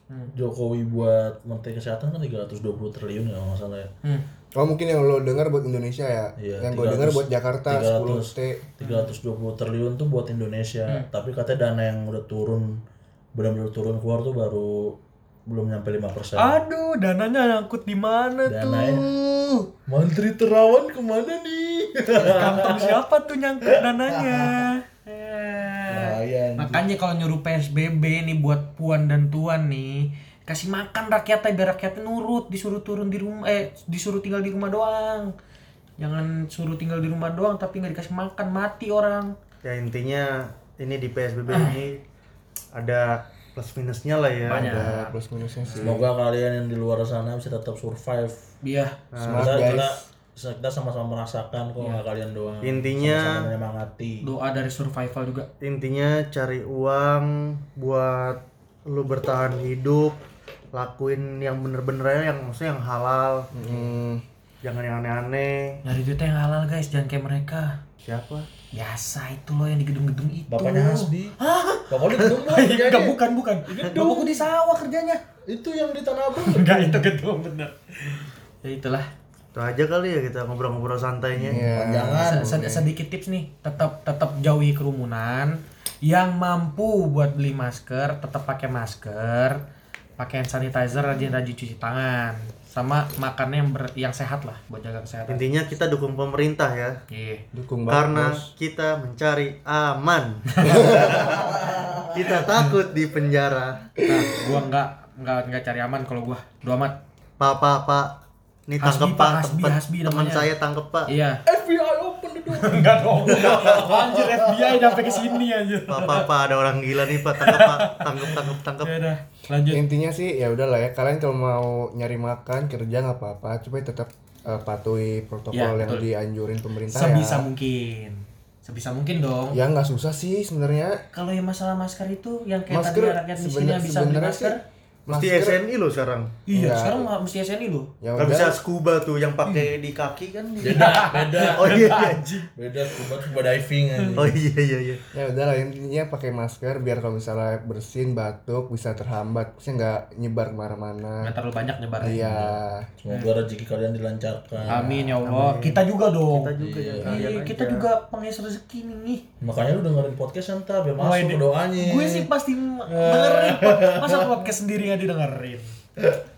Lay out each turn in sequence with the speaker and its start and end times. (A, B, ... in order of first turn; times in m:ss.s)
0:00.3-0:03.9 A
0:04.6-0:08.6 B
0:06.4-0:12.8 A
0:08.8-0:09.2 C
0:13.3-0:16.6 A
0:16.3-0:19.4 C
0:18.4-0:19.1 A
0:19.9-0:23.0 A
0:22.2-0:35.3 C
0:23.7-0:24.7 A
0:25.9-0:26.8 A
0:36.0-0:39.3 C
0:39.6-0:42.0 D
0:42.7-0:44.7 D
0:44.4-0:46.0 C
0:44.5-0:46.0 B
0:45.8-0:48.5 A
0:48.6-0:49.0 C
0:49.1-0:49.6 D
0:49.2-0:50.0 B
0:49.2-0:54.2 A
0:51.8-0:52.0 C
0:52.6-0:53.4 D
0:54.2-0:55.5 C
0:55.6-1:00.2 D
1:00.7-1:03.5 D
1:03.5-1:04.2 B
1:04.6-1:05.8 D
1:05.8-1:07.8 C
1:08.0-1:08.5 D
1:08.7-1:15.2 C
1:10.5-1:11.4 A
1:11.9-1:13.2 A
1:13.7-1:14.5 A
1:15.4-1:17.1 A
1:16.3-1:19.1 C
1:19.5-1:21.6 D
1:21.4-1:22.6 A
1:21.5-1:22.9 B
1:22.2-1:29.6 C
1:30.2-1:35.4 C
1:35.3-1:37.0 D
1:37.1-1:37.4 C
1:37.5-1:38.5 B
1:37.9-1:43.9 D
1:40.6-1:41.1 C
1:40.7-1:41.0 B
1:41.0-1:42.4 A
1:44.0-1:44.6 B
1:44.0-1:47.0 C
1:47.4-1:51.1 D
1:48.8-1:50.5 C
1:51.0-1:51.4 C
1:51.4-1:55.4 A
1:52.5-1:56.3 C
1:55.9-1:58.9 D
1:57.1-1:59.8 C
1:59.7-2:07.4 B
2:05.5-2:06.1 C
2:06.9-2:09.6 C
2:09.5-2:11.0 B
2:11.1-2:14.6 C
2:12.7-2:14.6 B
2:15.1-2:15.6 B
2:15.1-2:16.4 D
2:16.5-2:17.9 C
2:16.5-2:17.1 B
2:18.0-2:18.6 B
2:18.2-2:22.3 D
2:19.4-2:19.7 C
2:20.6-2:22.0 A
2:20.6-2:22.5 C
2:22.6-2:24.4 A
2:24.2-2:25.0 D
2:25.1-2:31.3 B
2:31.2-2:32.3 C
2:32.0-2:32.9 B
2:32.2-2:35.2 A
2:34.6-2:39.2 C
2:34.7-2:35.2 B
2:35.2-2:37.8 D
2:36.6-2:37.3 A
2:39.4-2:42.3 A
2:41.0-2:45.8 C
2:42.9-2:44.5 A